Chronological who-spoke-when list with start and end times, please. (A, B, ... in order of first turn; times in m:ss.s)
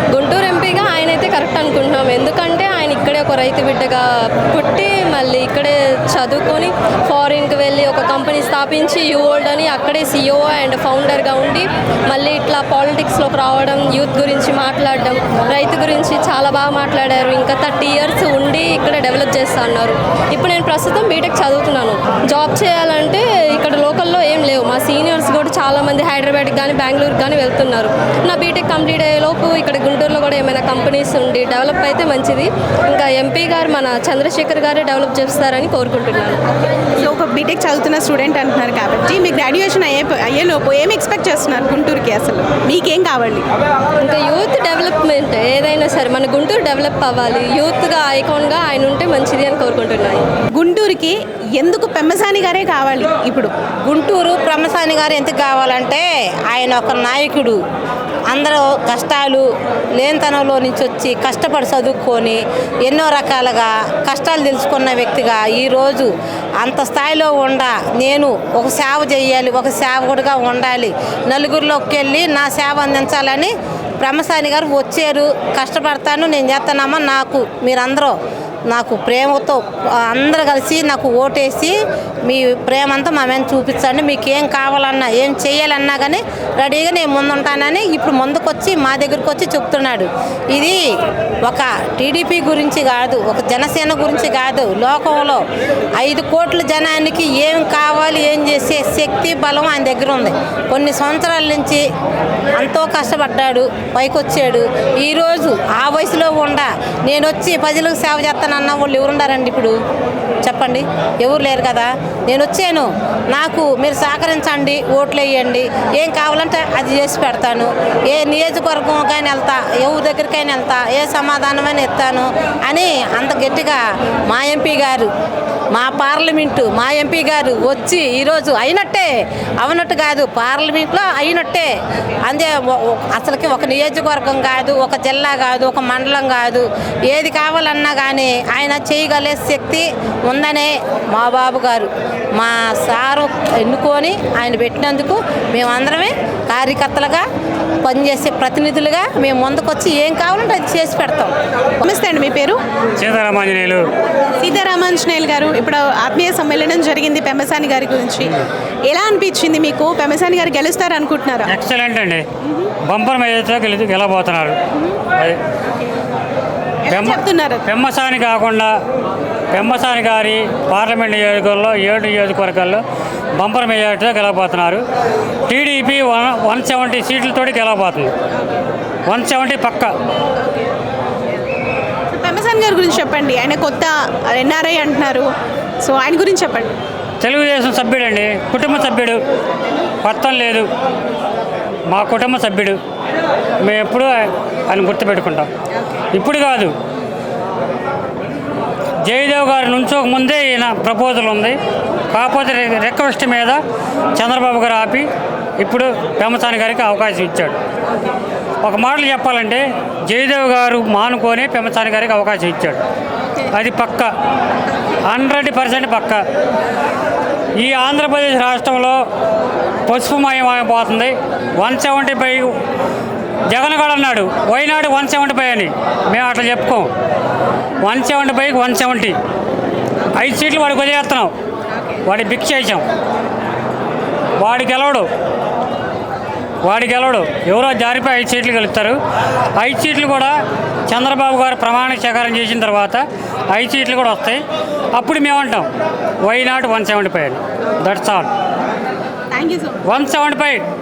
0:00.1-0:36.4 A
0:37.0-0:43.5 B
0:44.0-0:50.2 A
0:50.6-0:53.5 B
0:53.9-0:57.6 C
0:58.3-0:59.4 C
1:00.0-1:06.1 C
1:06.6-1:18.1 C
1:18.7-1:21.8 C
1:22.3-1:30.8 C
1:31.5-1:35.4 C
1:36.0-1:41.8 C
1:42.6-1:49.8 C
1:50.4-2:05.1 C
2:05.7-2:09.1 C
2:09.6-2:11.7 C
2:12.3-2:27.2 C
2:27.8-2:31.3 C
2:31.8-2:32.6 B
2:33.0-2:33.8 D
2:34.4-2:38.4 B
2:38.9-2:41.5 B
2:41.5-2:42.2 D
2:42.9-2:44.6 D
2:46.9-2:47.6 B
2:46.9-2:48.7 D
2:49.5-2:52.8 D
2:53.4-2:54.8 D
2:55.5-2:58.1 D
2:59.1-2:59.9 D
3:02.1-3:05.3 B
3:05.8-3:06.7 B
3:07.2-3:09.2 D
3:10.0-3:10.7 D
3:11.9-3:12.8 D
3:13.6-3:15.5 D
3:16.1-3:16.7 D
3:19.0-3:21.6 D
3:22.1-3:23.6 D
3:24.2-3:25.1 D
3:25.6-3:27.6 D
3:28.6-3:32.8 D
3:33.5-3:34.1 D
3:35.1-3:36.2 D
3:37.6-3:39.0 D
3:39.9-3:42.5 D
3:43.5-3:46.9 D
3:47.8-3:49.2 D
3:50.2-3:51.3 D
3:52.1-3:52.8 D
3:54.4-3:55.1 D
3:56.6-3:59.0 D
3:59.6-4:00.3 D
4:00.9-4:04.4 D
4:04.9-4:05.7 D
4:06.2-4:08.3 D
4:09.3-4:09.8 B
4:09.9-4:10.6 D